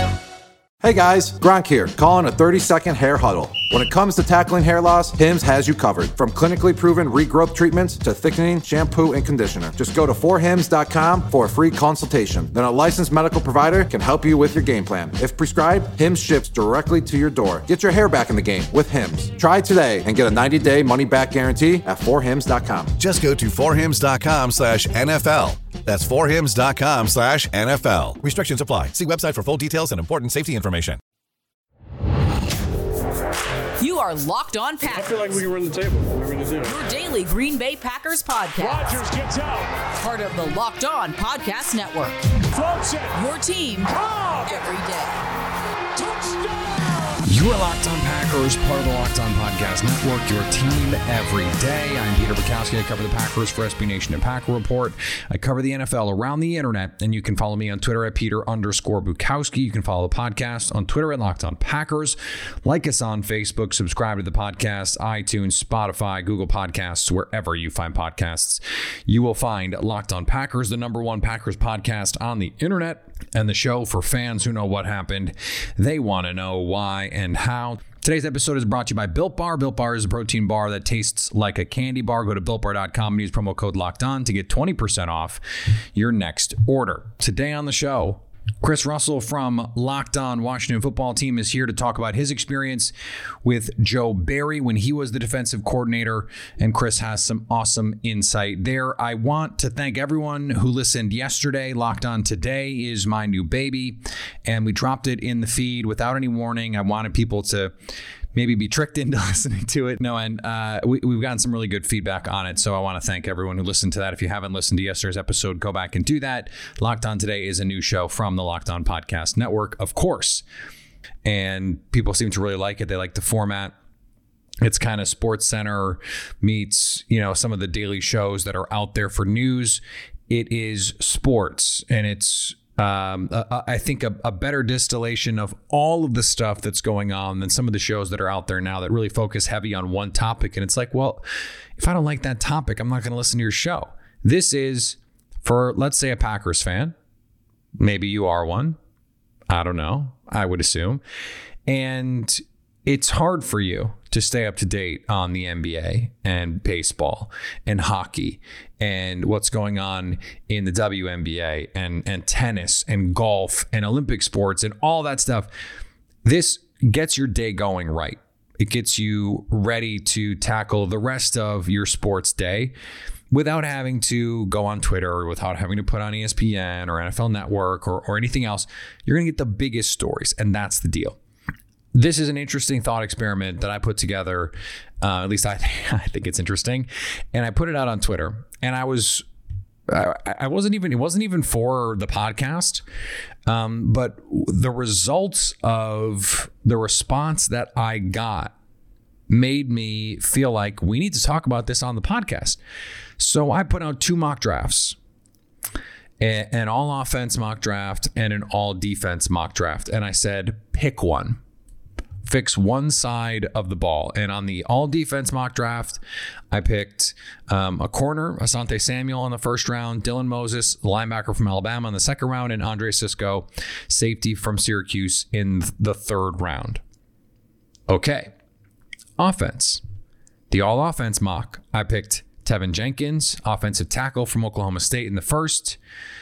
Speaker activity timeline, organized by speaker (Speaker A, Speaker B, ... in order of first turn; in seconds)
Speaker A: 0.8-23.0
Speaker B: 23.0-31.0
Speaker C: 33.8-35.5, 36.6-39.0, 40.0-42.3, 43.1-45.2
Speaker D: 34.9-36.8, 38.6-39.7, 42.5-43.2, 43.9-44.7, 46.0-47.2
Speaker E: 47.3-85.4, 85.9-92.9, 93.4-107.7, 108.3-120.4, 121.2-123.7, 124.6-141.2, 141.8-146.9, 147.8-148.8, 149.5-151.0, 151.7-165.5, 166.2-172.7, 173.3-181.2, 181.9-189.2, 189.9-192.8, 193.5-198.5, 199.3-202.6, 203.2-205.0, 206.2-211.4, 212.2-216.0, 216.5-226.8, 227.9-228.3, 229.2-229.8, 230.5-235.8